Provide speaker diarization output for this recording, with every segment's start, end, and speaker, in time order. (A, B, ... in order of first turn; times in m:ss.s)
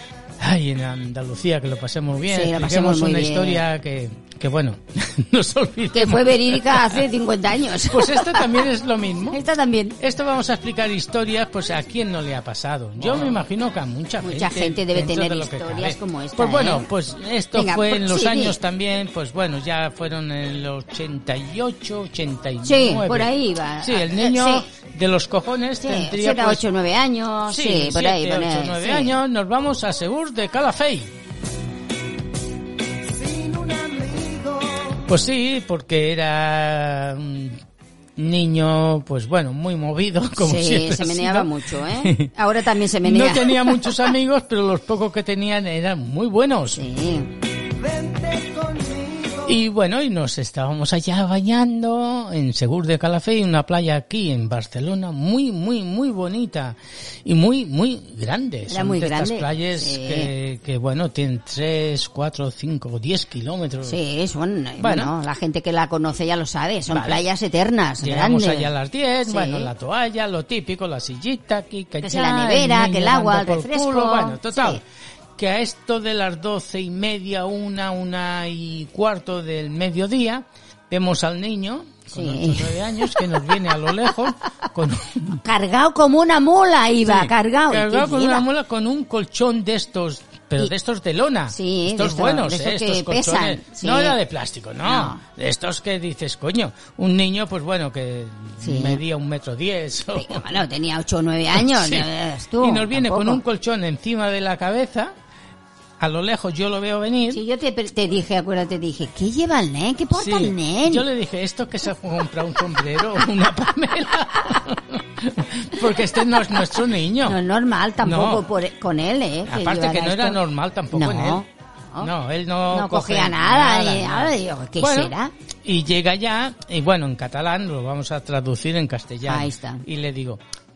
0:00.4-0:07.1 A
0:02.3-0:03.6 B
0:05.9-0:08.6 B
0:07.7-0:09.4 A
0:09.3-0:10.0 B
0:10.0-0:26.6 A
0:13.0-0:13.4 B
0:14.2-0:16.9 B
0:17.5-0:18.6 B
0:22.6-0:24.7 B
0:25.8-0:29.2 B
0:27.5-0:31.1 A
0:34.9-0:37.6 A
0:38.2-0:42.3 A
0:40.4-0:43.9 B
0:43.0-0:46.8 A
0:46.7-0:47.3 B
0:49.4-1:04.0 A
0:58.7-1:00.3 B
1:03.9-1:08.7 B
1:04.8-1:05.1 A
1:06.9-1:07.2 A
1:08.0-1:14.8 A
1:09.3-1:09.7 B
1:12.0-1:14.8 B
1:15.4-1:25.4 A
1:22.1-1:23.2 B
1:25.3-1:28.4 B
1:27.0-1:40.5 A
1:31.5-1:34.2 B
1:34.8-1:35.2 B
1:38.6-1:39.0 B
1:40.1-1:43.4 B
1:41.5-1:45.1 A
1:46.0-1:47.4 A
1:47.3-1:51.1 B
1:50.1-1:57.4 A
1:57.2-2:00.4 B
1:58.0-1:58.5 A
1:59.4-2:01.4 A
2:00.9-2:02.1 B
2:02.0-2:05.1 A
2:02.7-2:05.3 B
2:05.6-2:10.4 A
2:09.3-2:09.8 B